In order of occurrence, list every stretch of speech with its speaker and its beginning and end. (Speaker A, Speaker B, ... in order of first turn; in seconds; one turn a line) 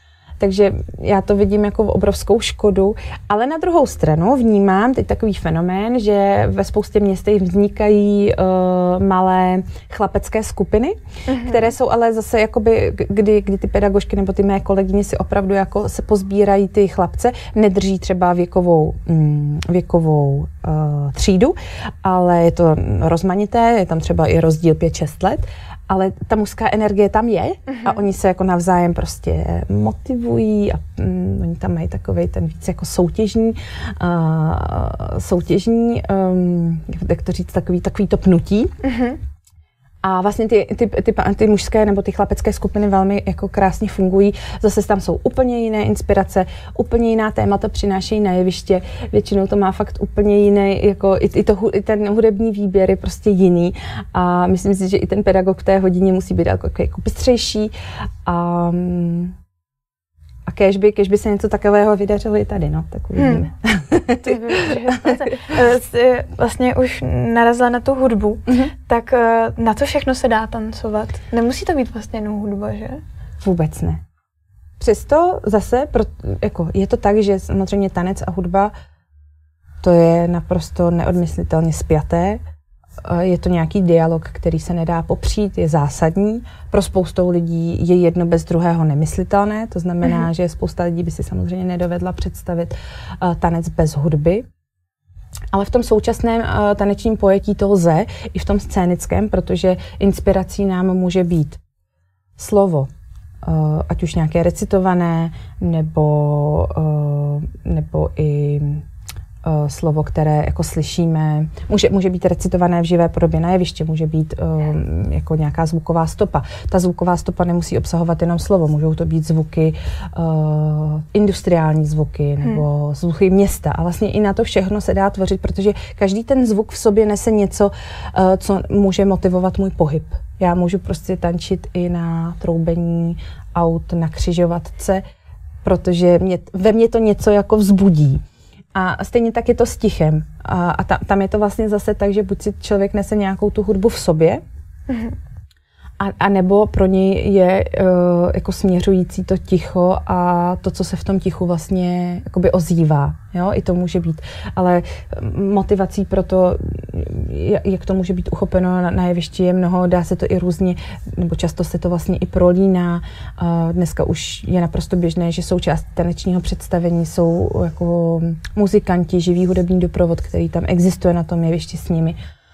Speaker A: 0.4-38.7
Speaker B: 11.3-11.7
Speaker B: 27.7-28.0
Speaker B: 38.8-39.2
Speaker A: 40.0-57.7
Speaker A: 58.2-59.3
Speaker A: 60.5-65.4
Speaker B: 63.2-63.4
Speaker B: 64.2-73.0
Speaker A: 68.5-68.7
Speaker A: 73.4-74.0
Speaker A: 74.8-78.7
Speaker A: 79.8-82.4
Speaker A: 83.0-94.4
Speaker A: 95.5-101.6
Speaker A: 102.4-102.9
Speaker A: 103.4-108.8
Speaker A: 109.4-135.0
Speaker A: 135.6-138.2
Speaker A: 138.7-144.4
Speaker B: 144.9-145.2
Speaker A: 146.0-172.2